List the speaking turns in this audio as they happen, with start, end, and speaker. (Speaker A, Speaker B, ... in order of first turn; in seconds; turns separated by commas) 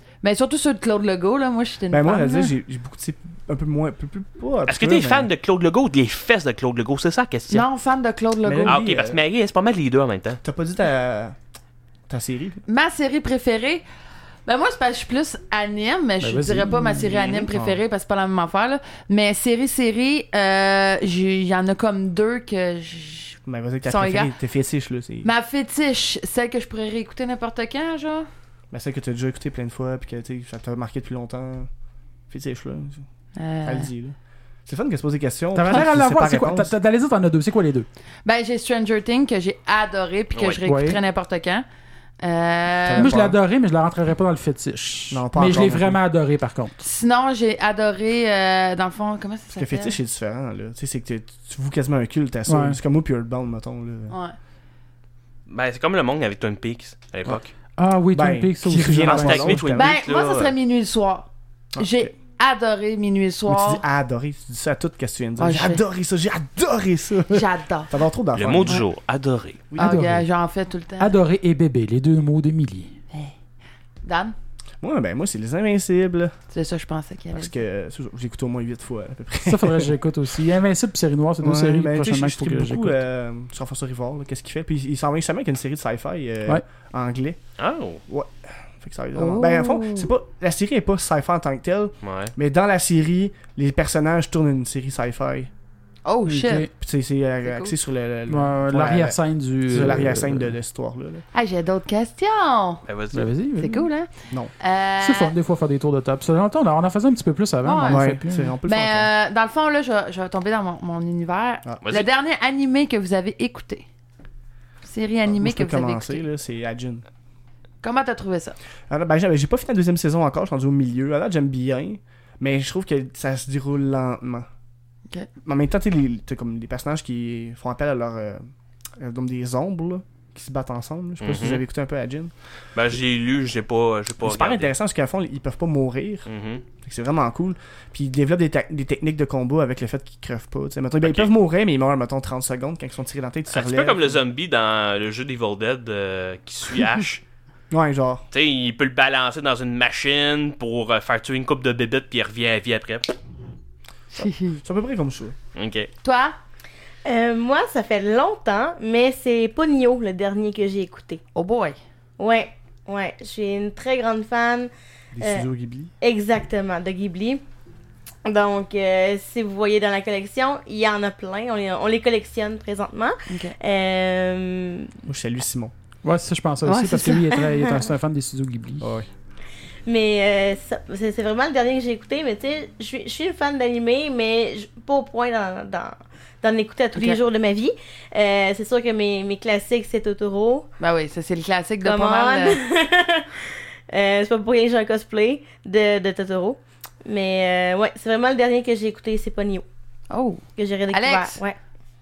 Speaker A: 0.2-2.5, Speaker B: 1.9-5.3, Speaker C: 4.7-7.6, Speaker A: 7.5-9.0, Speaker B: 8.4-9.2, Speaker C: 8.7-10.4, Speaker B: 10.4-11.4, Speaker B: 12.1-12.6, Speaker A: 12.7-13.8, Speaker A: 14.4-24.3, Speaker D: 16.2-17.1, Speaker C: 17.1-17.5, Speaker B: 17.5-17.8, Speaker B: 23.4-25.3, Speaker A: 25.2-28.3, Speaker B: 28.7-31.7, Speaker B: 32.3-33.0, Speaker A: 33.4-33.9, Speaker B: 33.6-34.2, Speaker B: 34.7-36.7, Speaker D: 35.5-37.9, Speaker A: 38.2-41.6, Speaker D: 40.6-41.0, Speaker A: 42.2-43.2, Speaker B: 42.9-43.4, Speaker D: 43.0-46.8, Speaker B: 45.1-46.0, Speaker A: 46.8-50.0, Speaker B: 49.6-54.1, Speaker D: 52.5-52.8, Speaker A: 54.1-54.4, Speaker C: 55.5-57.5, Speaker D: 57.8-59.6, Speaker B: 58.1-59.9, Speaker C: 58.9-60.5, Speaker A: 59.7-63.8, Speaker B: 61.7-62.1, Speaker B: 63.5-68.8, Speaker A: 65.4-65.8, Speaker A: 67.3-67.9, Speaker C: 68.3-69.6, Speaker B: 69.7-70.0, Speaker D: 69.8-70.2, Speaker A: 69.8-71.2, Speaker D: 71.0-73.0, Speaker A: 74.0-74.3, Speaker B: 74.8-76.4, Speaker A: 76.5-77.5, Speaker B: 77.3-79.9, Speaker D: 79.4-83.0, Speaker B: 81.4-87.4, Speaker C: 87.6-88.0, Speaker B: 88.1-95.5, Speaker A: 89.2-90.1, Speaker C: 92.0-92.3, Speaker A: 96.0-96.7, Speaker D: 96.2-96.7, Speaker B: 96.8-101.2, Speaker A: 97.5-97.8, Speaker D: 98.3-100.5, Speaker A: 101.3-102.8, Speaker C: 102.9-103.3, Speaker D: 103.1-103.9, Speaker A: 103.6-104.1, Speaker A: 104.6-105.3, Speaker D: 105.0-108.5, Speaker A: 107.6-108.1, Speaker B: 107.9-109.1, Speaker A: 108.6-113.8, Speaker C: 111.8-112.1, Speaker A: 114.8-116.2, Speaker B: 115.3-117.0, Speaker A: 117.8-118.6, Speaker B: 118.9-124.5, Speaker B: 125.4-128.4, Speaker B: 129.0-132.3, Speaker C: 131.2-131.6, Speaker C: 132.7-134.7, Speaker B: 134.2-136.3, Speaker C: 136.3-136.6, Speaker B: 136.8-144.2, Speaker C: 141.0-141.3, Speaker C: 143.5-147.2, Speaker B: 147.7-148.2, Speaker C: 148.3-153.1, Speaker B: 154.1-155.4, Speaker A: 154.1-154.6, Speaker C: 155.6-155.9, Speaker A: 156.0-156.3, Speaker E: 157.1-161.2, Speaker A: 161.3-161.8, Speaker E: 162.2-165.5, Speaker B: 165.1-165.9, Speaker E: 166.0-167.4, Speaker E: 168.2-174.9, Speaker A: 173.3-173.5, Speaker B: 175.1-175.7, Speaker D: 176.0-178.9, Speaker A: 176.7-177.4, Speaker B: 178.8-179.1, Speaker E: 179.9-190.7, Speaker A: 186.9-187.2, Speaker A: 190.8-192.6, Speaker E: 191.8-199.6, Speaker A: 200.1-201.4, Speaker E: 200.6-201.6